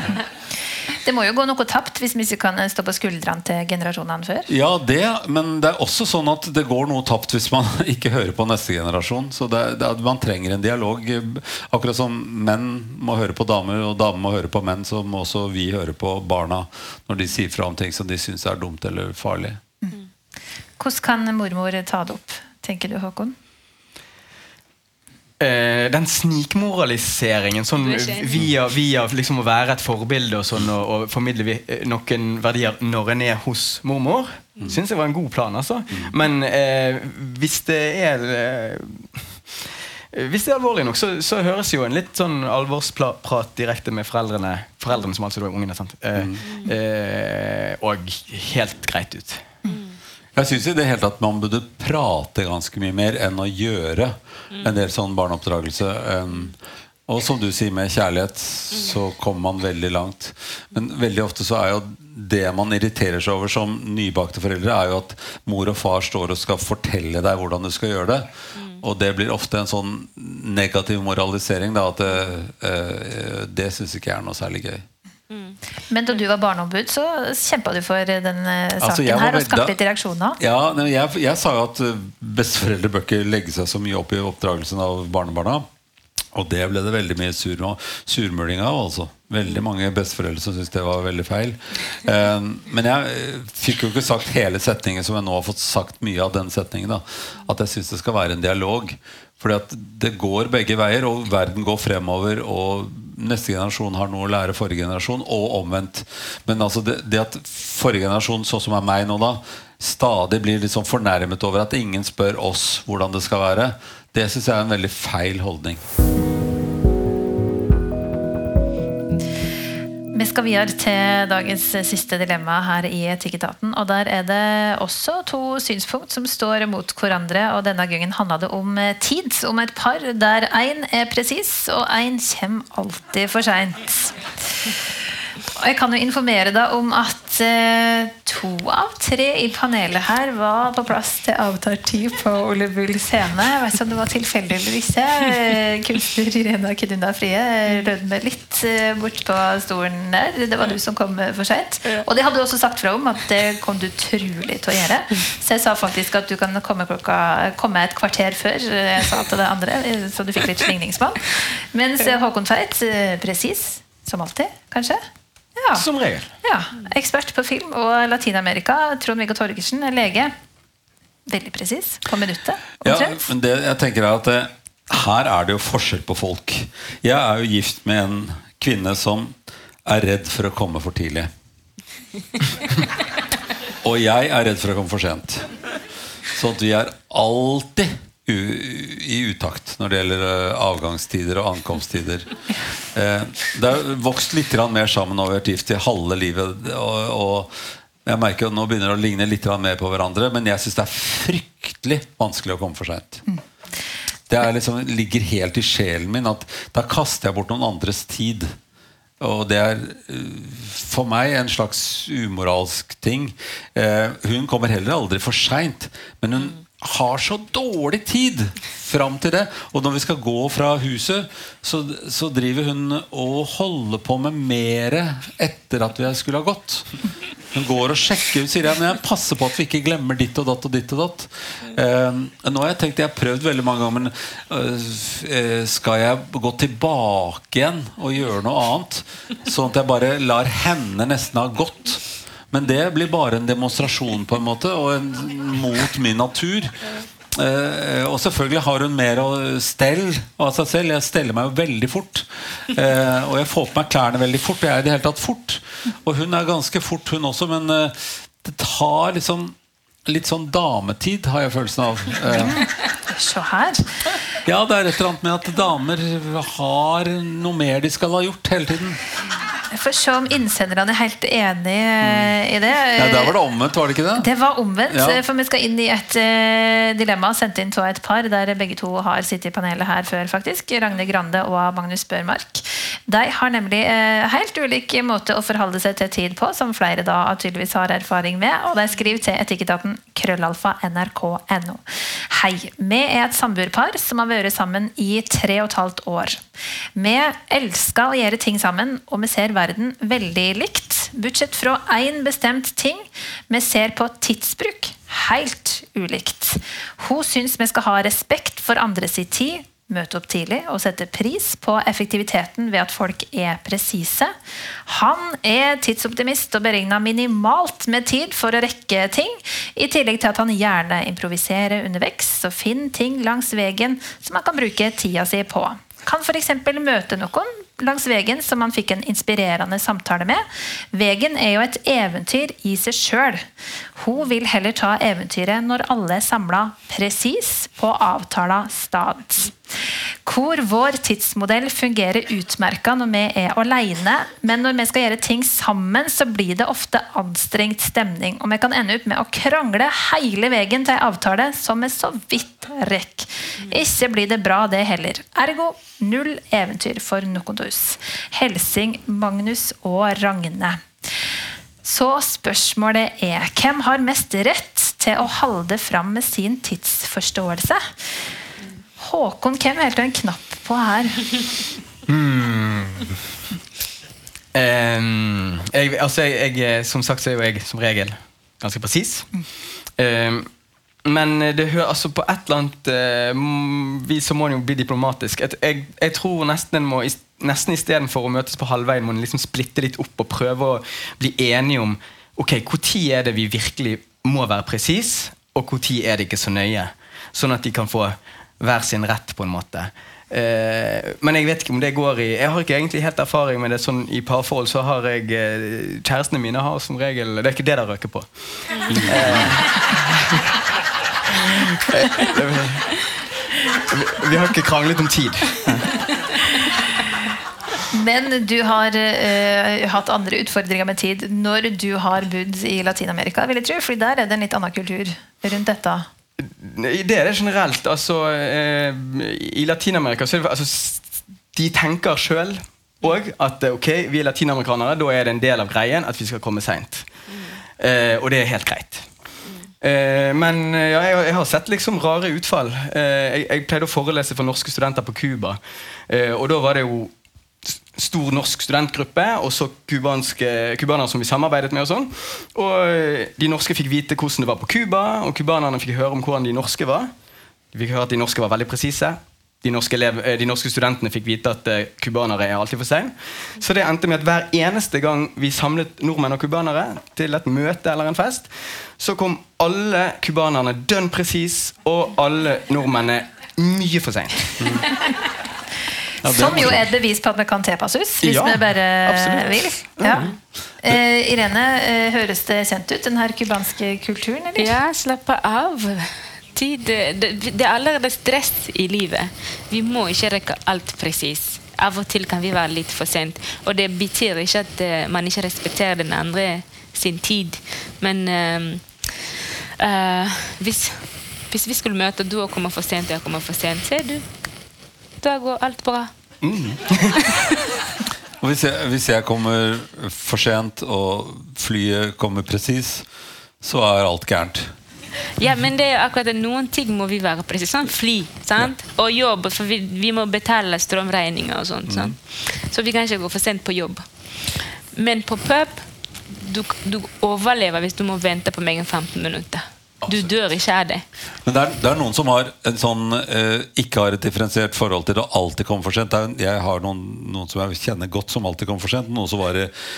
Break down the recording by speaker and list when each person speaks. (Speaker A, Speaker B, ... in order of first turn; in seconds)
Speaker A: 1.0-4.5, 20.8-23.4, 75.9-80.4, 120.1-134.8, 135.6-165.0, 165.6-165.9, 166.4-170.3, 171.3-173.3, 262.4-264.2, 269.7-273.3, 274.2-296.4, 297.0-314.4, 314.9-339.6, 340.2-360.9, 361.8-367.9, 369.0-371.4, 417.9-426.1, 476.2-484.8
Speaker B: 4.5-19.6, 50.4-56.5, 57.1-74.8, 78.8-79.8, 80.4-85.7, 86.3-115.8, 172.8-181.3, 183.8-185.5, 186.3-192.3, 192.9-203.2, 204.3-208.6, 209.2-227.0, 227.5-246.8, 247.3-259.6, 260.1-262.6, 264.4-269.0, 272.0-272.3, 273.0-274.3, 274.9-275.2, 474.6-474.9, 476.2-476.9, 508.4-513.1, 513.6-514.7, 521.9-522.1, 531.5-539.7
Speaker C: 25.4-39.6, 40.1-49.5, 165.7-166.3, 372.1-373.2, 374.5-379.5, 380.0-380.5, 381.0-410.5, 411.3-413.2, 413.8-416.0, 426.4-437.1, 437.8-439.1, 439.8-447.1, 447.6-457.1, 457.7-474.9, 478.2-480.4, 506.4-507.3
Speaker D: 27.8-28.4, 46.5-46.7, 49.6-50.0, 54.5-54.8, 68.5-68.8, 75.3-75.6, 408.8-409.1, 437.3-437.6, 484.6-504.3, 505.2-506.1, 507.3-507.6, 515.4-531.0